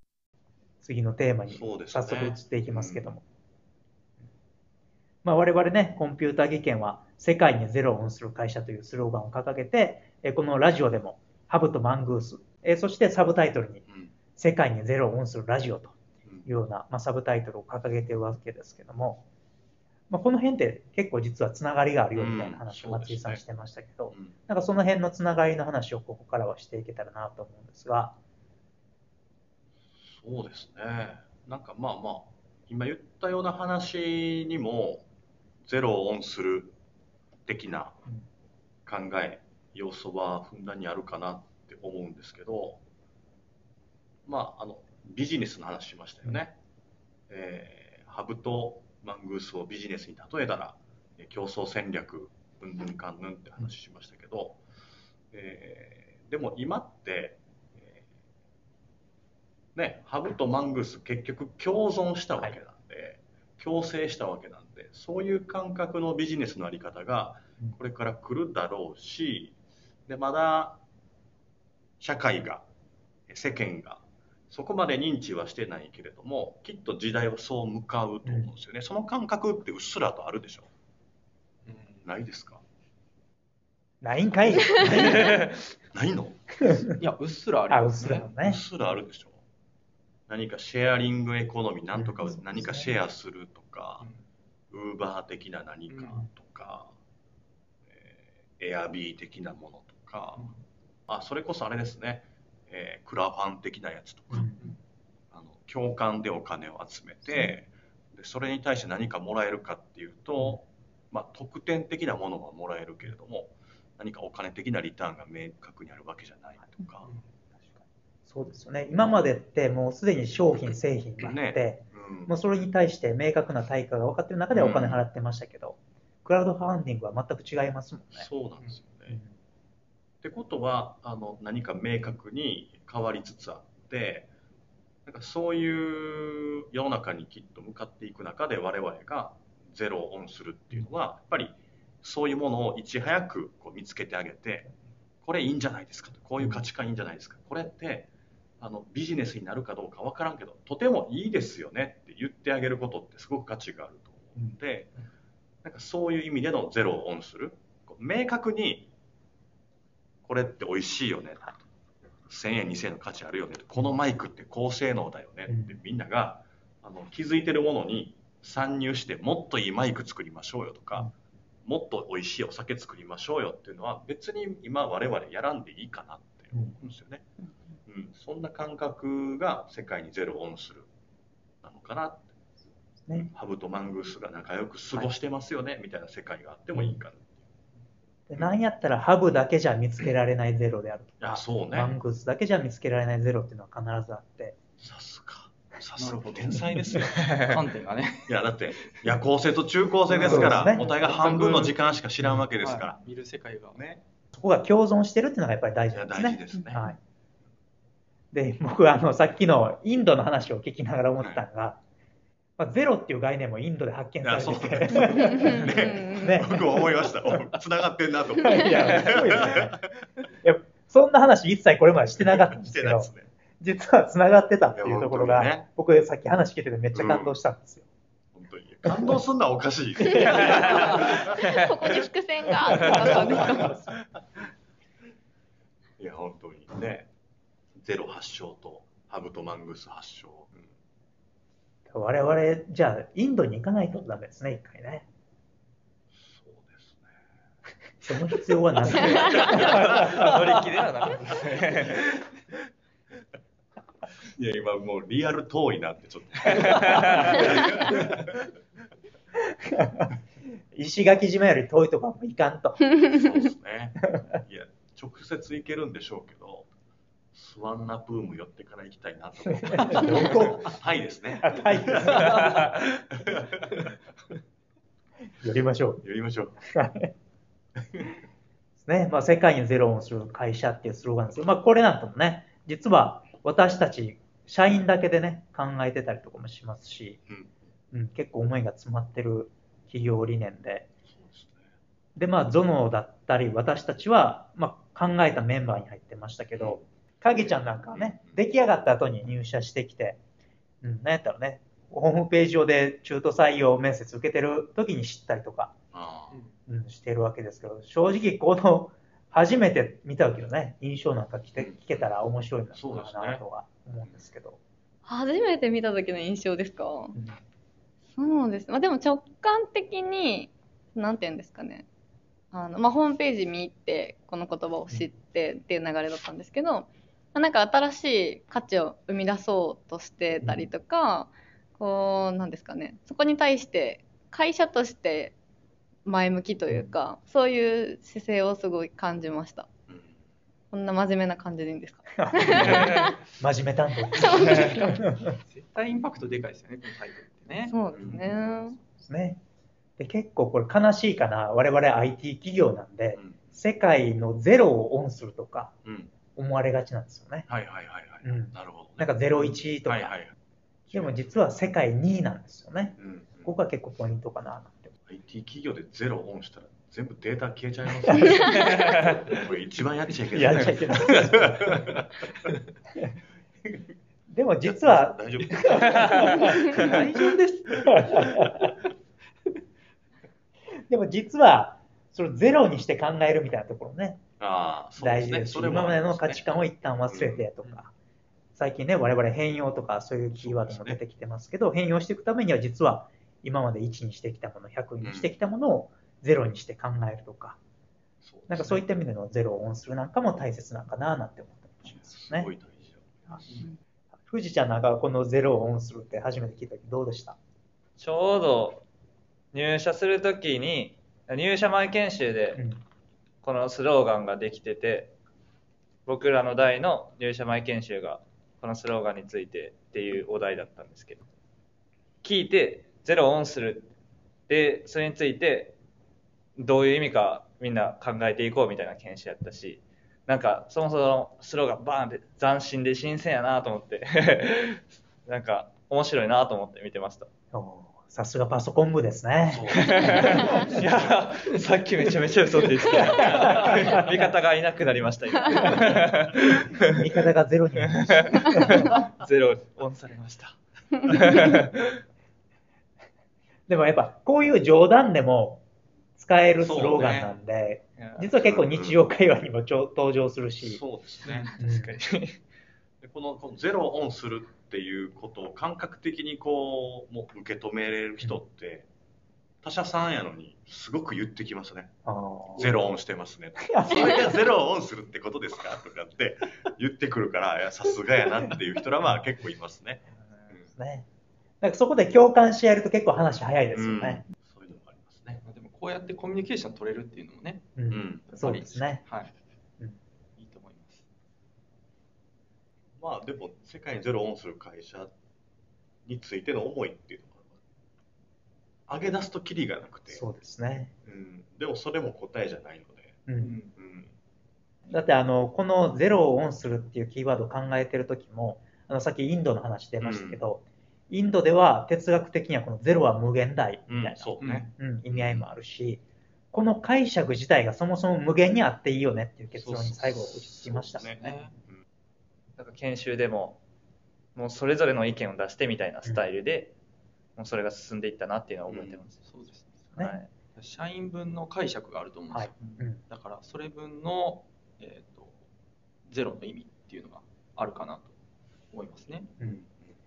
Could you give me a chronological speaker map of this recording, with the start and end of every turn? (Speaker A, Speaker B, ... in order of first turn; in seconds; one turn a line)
Speaker A: 0.8-3.2
Speaker B: 1.5-3.1
Speaker A: 5.2-19.2
Speaker A: 20.1-28.2
Speaker B: 22.1-23.4
Speaker B: 30.0-35.1
Speaker B: 35.6-36.7
Speaker B: 37.5-38.0
Speaker B: 38.8-42.8
Speaker B: 44.2-46.5
Speaker B: 47.3-54.6
Speaker B: 55.3-58.0
Speaker B: 59.7-69.5
Speaker B: 70.1-70.8
Speaker B: 72.0-72.6
Speaker B: 73.3-80.7
Speaker A: 78.2-78.5
Speaker B: 82.0-82.6
Speaker A: 84.0-85.4
Speaker B: 84.5-85.0
Speaker C: 85.2-85.5
Speaker B: 85.9-86.5
Speaker A: 86.6-87.0
Speaker D: 86.8-88.3
Speaker A: 87.7-88.6
Speaker B: 88.3-89.4
Speaker B: 90.3-94.1
Speaker A: 91.9-92.9
Speaker B: 94.7-96.9
Speaker D: 95.9-96.2
Speaker B: 97.9-100.5
Speaker B: 101.1-104.5
Speaker A: 104.3-104.7
Speaker B: 105.3-117.1
Speaker A: 117.6-128.3
Speaker B: 120.5-122.3
Speaker B: 124.5-125.0
Speaker B: 128.1-129.2
Speaker B: 130.2-134.3
Speaker B: 135.1-144.7
Speaker B: 145.2-148.1
Speaker B: 148.6-154.9
Speaker B: 155.6-158.9
Speaker B: 160.2-161.6
Speaker B: 162.3-171.1
Speaker A: 165.5-165.7
Speaker B: 171.6-177.2
Speaker B: 177.9-180.9
Speaker B: 181.6-182.3
Speaker B: 183.1-187.4
Speaker A: 188.3-194.6
Speaker B: 191.2-191.9
Speaker B: 194.8-197.6
Speaker D: 196.0-199.1
Speaker B: 198.3-203.0
Speaker D: 200.1-201.8
Speaker A: 200.1-200.8
Speaker D: 202.6-203.8
Speaker B: 203.7-204.0
Speaker A: 204.3-207.0
Speaker B: 205.9-206.9
Speaker A: 208.3-211.8
Speaker B: 211.2-211.4
Speaker A: 212.6-217.1
Speaker B: 214.2-219.8
Speaker E: 215.4-216.2
Speaker A: 218.4-219.8
Speaker A: 220.4-227.8
Speaker B: 222.2-223.3
Speaker B: 224.7-225.7
Speaker B: 226.9-227.3
Speaker B: 228.3-232.1
Speaker E: 230.1-233.8
Speaker B: 232.7-233.7
Speaker A: 232.8-233.9
Speaker B: 236.0-237.1
Speaker B: 237.7-240.7
Speaker A: 241.9-245.1
Speaker B: 246.2-247.1
Speaker A: 248.0-250.2
Speaker B: 249.2-250.3
Speaker C: 249.3-252.2
Speaker B: 251.3-252.0
Speaker B: 254.2-258.5
Speaker C: 256.5-257.4
Speaker A: 259.6-260.1
Speaker A: 260.7-262.9
Speaker B: 263.0-266.7
Speaker B: 267.3-273.9
Speaker A: 269.7-270.7
Speaker A: 271.4-272.6
Speaker A: 275.4-276.0
Speaker B: 276.0-276.6
Speaker A: 276.6-277.1
Speaker A: 278.8-287.2
Speaker B: 287.3-287.6
Speaker A: 287.9-290.9
Speaker B: 291.1-291.7
Speaker A: 292.1-300.2
Speaker B: 296.6-296.8
Speaker B: 297.9-298.4
Speaker A: 300.8-305.7
Speaker B: 305.9-306.4
Speaker A: 306.7-314.6
Speaker B: 311.6-312.1
Speaker B: 312.7-313.4
Speaker E: 315.1-317.1
Speaker E: 318.1-321.9
Speaker E: 322.5-335.3
Speaker A: 330.4-330.7
Speaker E: 336.0-339.7
Speaker A: 336.7-336.9
Speaker E: 340.7-343.2
Speaker A: 342.2-345.4
Speaker E: 344.1-345.0
Speaker D: 345.3-348.8
Speaker E: 347.7-348.8
Speaker B: 347.9-348.2
Speaker A: 349.0-349.4
Speaker A: 350.0-355.7
Speaker B: 353.1-353.6
Speaker B: 355.8-356.1
Speaker A: 356.3-357.5
Speaker B: 357.5-359.1
Speaker A: 358.2-360.1
Speaker B: 359.9-360.3
Speaker B: 360.9-361.1
Speaker A: 360.9-364.9
Speaker B: 363.0-363.5
Speaker B: 365.1-372.1
Speaker C: 368.6-369.3
Speaker A: 370.3-371.9
Speaker A: 374.3-376.7
Speaker B: 374.6-376.9
Speaker C: 376.0-376.3
Speaker D: 376.3-378.3
Speaker A: 377.9-378.7
Speaker B: 377.9-378.5
Speaker A: 380.9-384.2
Speaker B: 384.4-386.4
Speaker A: 385.0-387.9
Speaker B: 387.1-387.4
Speaker A: 388.6-397.6
Speaker B: 390.3-391.0
Speaker B: 395.0-395.3
Speaker B: 398.2-398.8
Speaker A: 398.5-402.5
Speaker B: 401.9-403.6
Speaker A: 404.3-407.4
Speaker C: 408.0-408.8
Speaker C: 409.5-412.6
Speaker C: 413.4-415.1
Speaker C: 416.1-421.3
Speaker C: 422.2-423.9
Speaker C: 424.5-425.7
Speaker C: 426.6-437.3
Speaker A: 437.5-440.7
Speaker B: 439.5-440.8
Speaker C: 439.7-447.0
Speaker A: 446.9-448.9
Speaker C: 447.9-452.0
Speaker A: 453.7-455.6
Speaker A: 456.2-460.8
Speaker B: 456.6-457.3
Speaker C: 458.0-458.3
Speaker B: 458.4-459.0
Speaker B: 460.6-461.5
Speaker C: 461.4-462.4
Speaker A: 461.4-462.0
Speaker B: 463.0-468.9
Speaker B: 469.6-471.9
Speaker A: 472.1-472.7
Speaker B: 472.5-480.6
Speaker A: 473.6-474.3
Speaker A: 480.7-481.1
Speaker A: 481.6-484.2
Speaker B: 483.7-485.4
Speaker D: 485.4-489.3
Speaker A: 487.8-489.0
Speaker B: 487.9-488.2
Speaker D: 490.4-491.1
Speaker B: 493.0-495.1
Speaker B: 496.0-497.6
Speaker B: 498.9-500.2
Speaker A: 500.1-500.9
Speaker B: 501.0-503.2
Speaker A: 503.3-503.5
Speaker D: 503.4-503.7
Speaker B: 503.8-504.1
Speaker A: 504.9-521.1
Speaker B: 510.0-510.4
Speaker B: 513.9-515.5
Speaker D: 514.4-514.7
Speaker B: 519.5-521.8
Speaker D: 521.1-521.5
Speaker C: 522.6-523.6
Speaker C: 524.3-526.7
Speaker C: 527.4-529.2
Speaker B: 528.7-529.0
Speaker D: 529.2-529.7
Speaker C: 529.9-530.3
Speaker D: 530.5-535.4
Speaker A: 532.3-533.0
Speaker D: 536.1-538.1
Speaker D: 538.7-539.3
Speaker B: 539.4-539.9